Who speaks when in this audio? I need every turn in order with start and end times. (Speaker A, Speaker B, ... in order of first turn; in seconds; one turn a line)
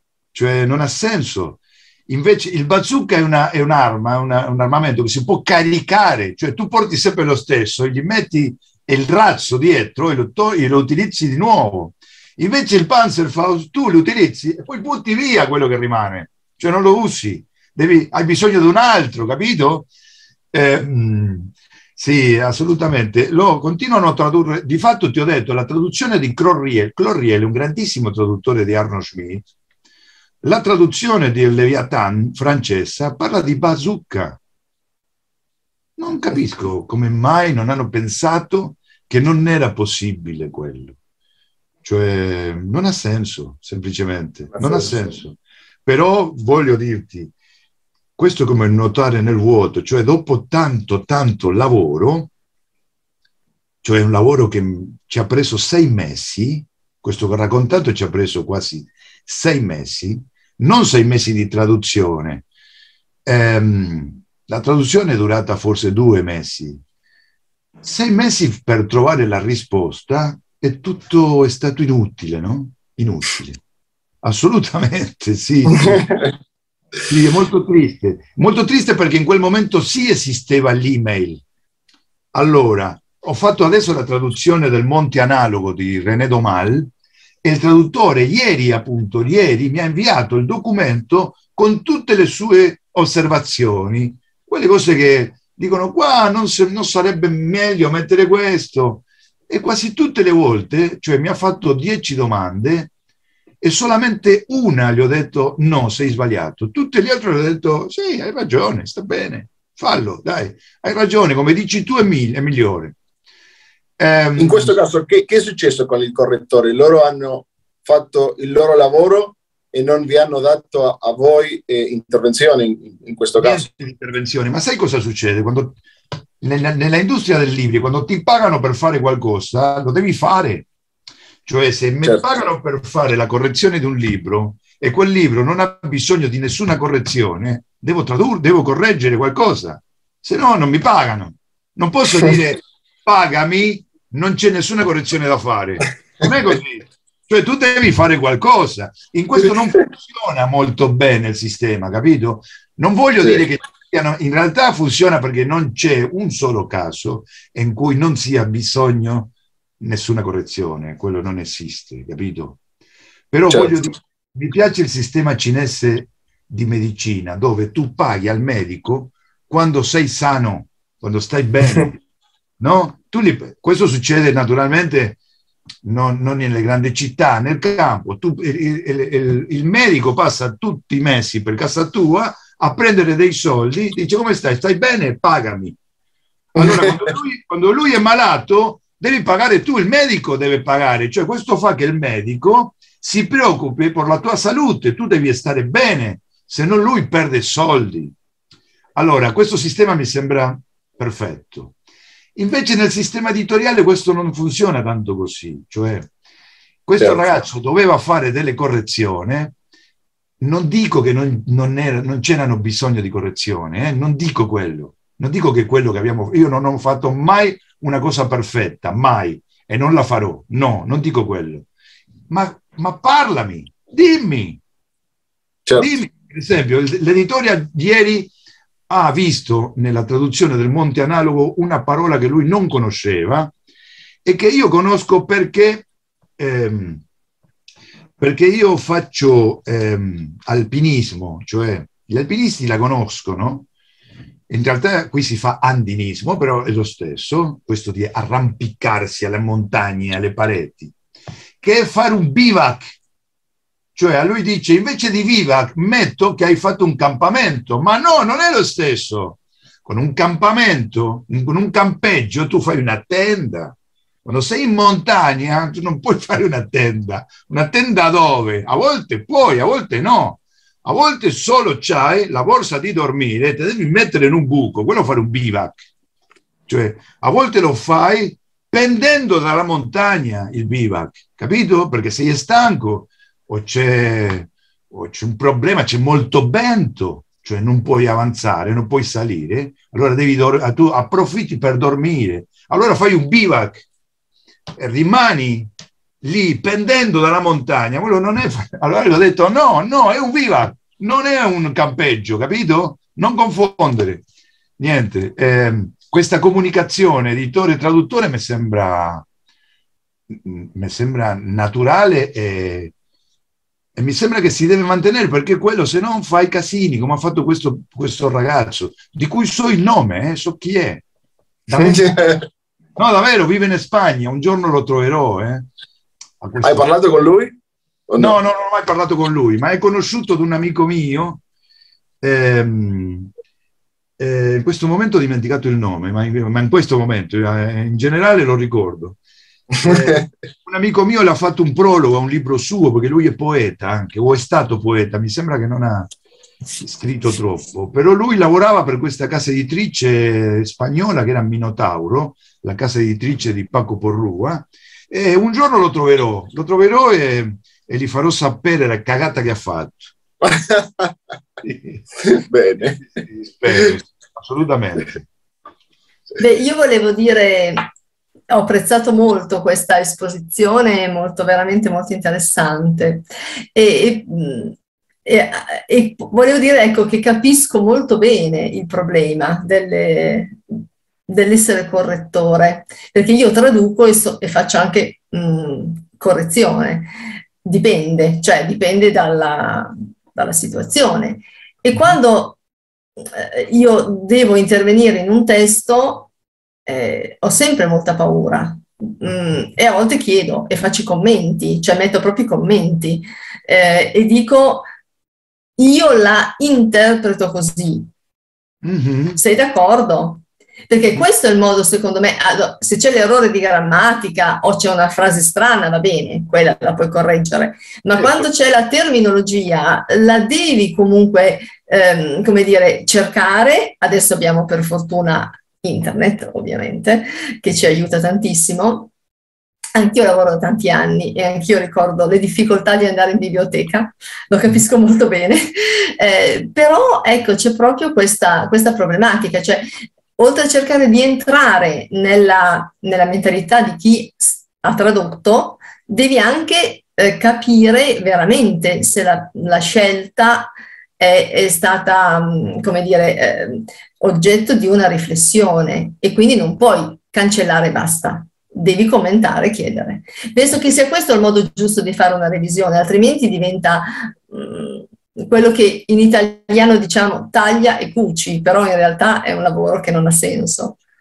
Speaker A: 0.3-19.9
Speaker A: 20.5-29.5
Speaker A: 30.4-34.4
Speaker A: 36.0-41.0
Speaker A: 41.8-47.3
Speaker B: 44.6-45.2
Speaker A: 48.2-52.3
Speaker A: 53.8-62.5
Speaker A: 63.3-66.8
Speaker A: 67.8-73.6
Speaker A: 74.2-76.1
Speaker B: 75.8-76.3
Speaker A: 77.1-81.4
Speaker A: 82.3-86.9
Speaker A: 87.4-102.9
Speaker A: 103.6-113.0
Speaker A: 114.0-114.8
Speaker B: 114.4-123.7
Speaker A: 123.4-125.8
Speaker A: 126.4-130.7
Speaker A: 131.5-162.6
Speaker A: 163.3-172.0
Speaker B: 163.5-163.9
Speaker A: 172.6-175.2
Speaker A: 175.8-185.8
Speaker A: 186.6-198.1
Speaker A: 199.0-201.7
Speaker A: 202.4-206.1
Speaker A: 206.9-209.5
Speaker A: 210.4-221.7
Speaker A: 222.3-224.6
Speaker A: 225.8-228.3
Speaker A: 228.9-233.5
Speaker A: 234.2-235.9
Speaker A: 236.4-237.0
Speaker A: 238.2-243.7
Speaker A: 244.5-250.9
Speaker A: 251.6-253.0
Speaker A: 253.9-275.9
Speaker A: 276.7-293.9
Speaker A: 294.8-295.7
Speaker A: 296.2-304.2
Speaker A: 304.8-309.2
Speaker A: 310.3-312.9
Speaker A: 314.0-321.0
Speaker A: 321.7-322.2
Speaker B: 321.7-322.5
Speaker A: 323.0-325.7
Speaker A: 326.4-326.9
Speaker B: 326.6-327.6
Speaker B: 328.1-328.4
Speaker A: 328.2-331.4
Speaker A: 332.2-333.3
Speaker A: 334.2-339.2
Speaker B: 339.7-340.3
Speaker A: 339.8-346.1
Speaker A: 346.8-360.1
Speaker B: 360.4-361.1
Speaker A: 361.6-362.1
Speaker B: 362.2-363.1
Speaker A: 363.2-365.2
Speaker C: 366.4-367.9
Speaker C: 368.5-380.6
Speaker C: 381.3-387.1
Speaker C: 387.6-392.6
Speaker C: 393.3-396.3
Speaker C: 396.9-404.9
Speaker C: 405.8-408.1
Speaker A: 408.8-409.4
Speaker C: 409.4-429.1
Speaker C: 429.9-471.0